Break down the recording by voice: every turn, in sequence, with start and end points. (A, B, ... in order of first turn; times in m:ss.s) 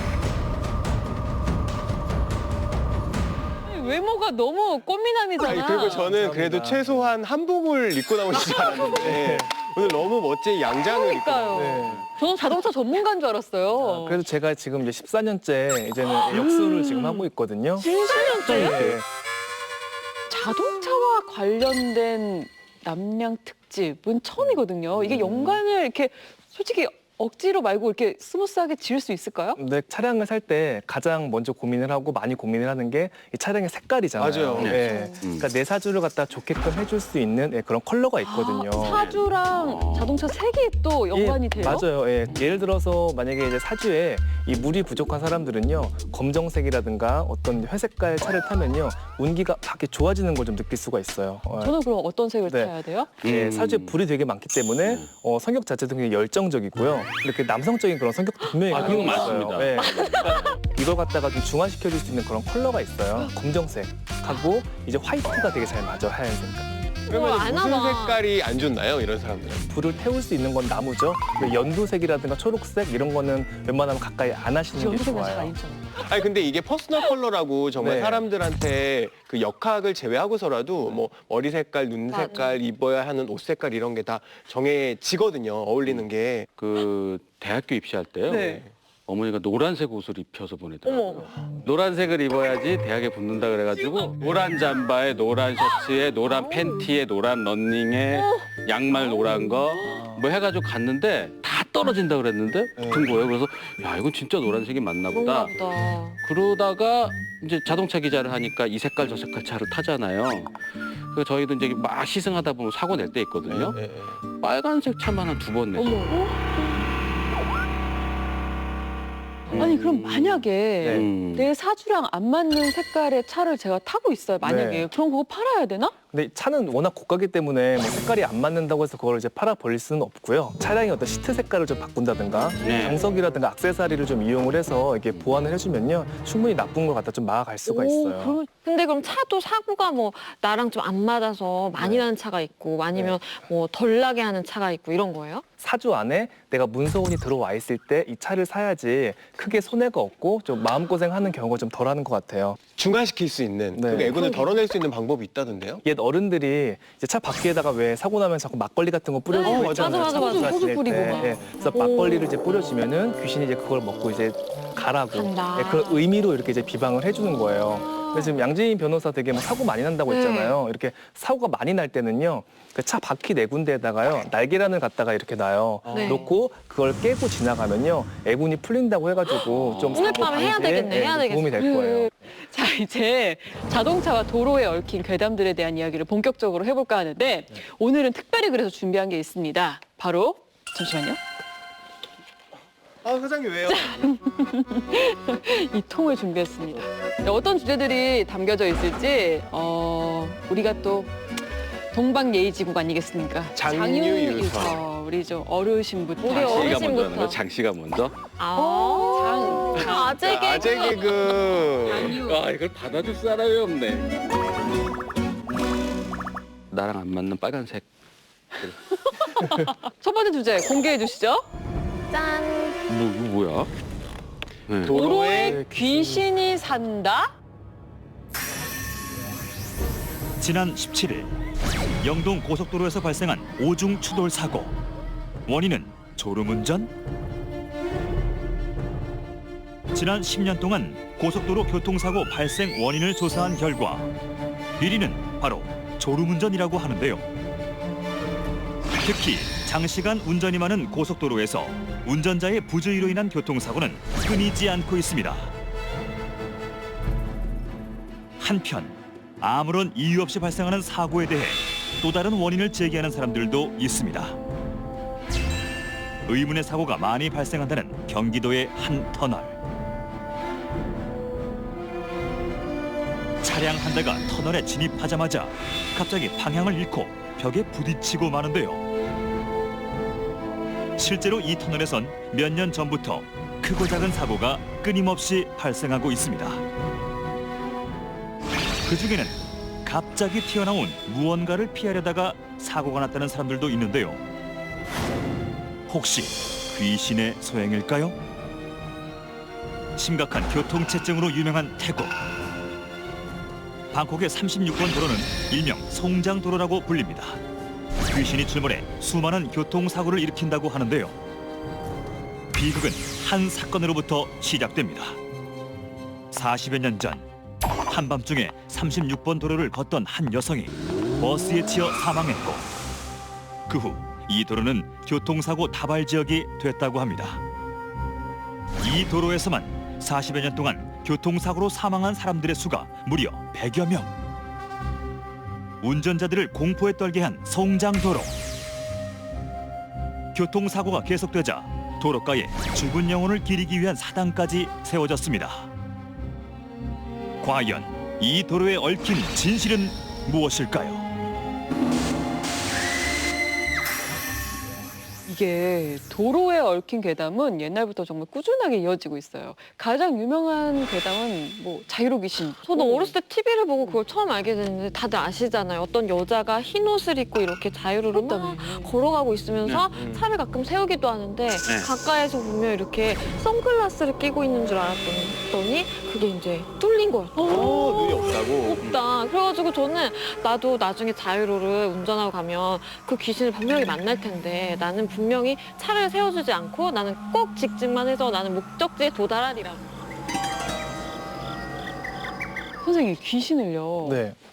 0:03.6-0:06.1 A
0:05.4-0:11.8 B
0:06.0-0:07.2 C
0:08.3-0:08.7 D
0:08.4-0:09.2 A
0:09.0-0:09.6 C
0:10.8-0:14.2 A
0:11.5-0:12.1 C
0:13.8-0:17.8 C
0:16.0-0:18.9 A
0:18.2-0:18.7 D
0:18.4-0:19.0 C
0:20.3-0:29.6 A
0:24.4-0:25.6 C
0:29.6-0:39.1 C
0:34.2-0:34.7 B
0:34.6-0:35.5 E
0:34.6-0:35.2 A
0:38.2-0:41.9 A
0:38.9-0:40.3 E
0:41.1-0:51.8 C
0:42.2-0:42.7 E
0:51.5-0:53.1 A
0:52.4-1:06.7 C
0:53.2-0:54.0 E
0:58.7-1:00.4 E
0:59.1-1:00.5 D
1:07.1-1:08.3 D
1:07.1-1:09.7 B
1:09.7-1:15.5 C
1:14.7-1:16.0 A
1:15.9-1:26.5 B
1:17.8-1:18.2 C
1:22.1-1:22.5 D
1:26.6-1:28.5 E
1:28.3-1:28.6 A
1:29.1-1:45.5 E
1:30.8-1:31.4 D
1:36.2-1:36.8 D
1:42.8-1:43.1 B
1:45.1-1:46.2 D
1:46.2-1:53.8 E
1:53.4-1:54.2 B
1:54.3-1:56.2 E
1:55.8-1:56.4 A
1:59.5-2:01.5 E
1:59.5-2:05.9 A
2:00.8-2:01.1 C
2:04.4-2:04.9 C
2:06.1-2:18.4 C
2:12.6-2:13.0 E
2:17.7-2:18.5 A
2:18.6-2:25.4 D
2:21.8-2:22.1 C
2:22.9-2:23.2 C
2:25.6-2:32.6 C
2:32.8-2:35.8 B
2:33.7-2:34.1 C
2:34.0-2:34.5 D
2:34.0-2:34.5 A
2:35.8-3:02.1 C
2:39.3-2:40.7 D
2:39.8-2:41.5 A
2:41.6-2:42.4 D
2:45.1-2:46.0 D
2:48.0-2:48.4 D
2:50.1-2:50.6 D
2:55.9-2:56.3 D
2:59.5-3:00.0 E
2:59.9-3:01.6 D
3:01.5-3:11.2 A
3:13.0-3:14.0 B
3:13.7-3:21.1 A
3:21.9-3:26.8 A
3:23.5-3:24.8 B
3:26.2-3:27.4 D
3:26.3-3:28.2 E
3:28.4-3:31.6 D
3:28.6-3:31.0 A
3:30.2-3:32.1 B
3:31.8-3:32.5 A
3:32.0-3:34.1 E
3:36.7-3:37.8 E
3:39.0-3:41.4 A
3:42.1-3:42.8 D
3:42.9-3:43.7 E
3:44.8-3:45.5 B
3:44.9-3:47.3 A
3:45.5-3:46.3 C
3:50.4-3:51.3 F
3:52.0-3:54.8 F
3:55.4-3:56.9 F
3:59.9-4:04.1 F
4:04.8-4:07.3 F
4:09.0-4:15.5 F
4:18.4-4:24.4 F
4:26.2-4:29.6 F
4:33.4-4:38.8 F
4:41.0-4:46.6 F
4:48.8-4:54.2 F
4:55.9-4:58.2 F
5:00.0-5:02.2 F
5:03.9-5:07.4 F
5:08.1-5:11.2 F
5:12.5-5:15.2 F
5:16.3-5:17.3 F
5:17.9-5:22.6 F
5:23.7-5:27.4 F
5:28.8-5:34.1 F
5:35.8-5:38.3 F
5:40.3-5:45.7 F
5:47.4-5:51.1 F
5:55.2-6:03.2 A
6:02.6-6:29.8 D
6:08.1-6:09.0 A
6:09.6-6:10.0 E
6:09.9-6:10.2 B
6:11.6-6:11.9 E
6:17.4-6:18.7 B
6:18.8-6:19.0 E
6:32.8-6:34.2 A
6:34.0-6:34.4 C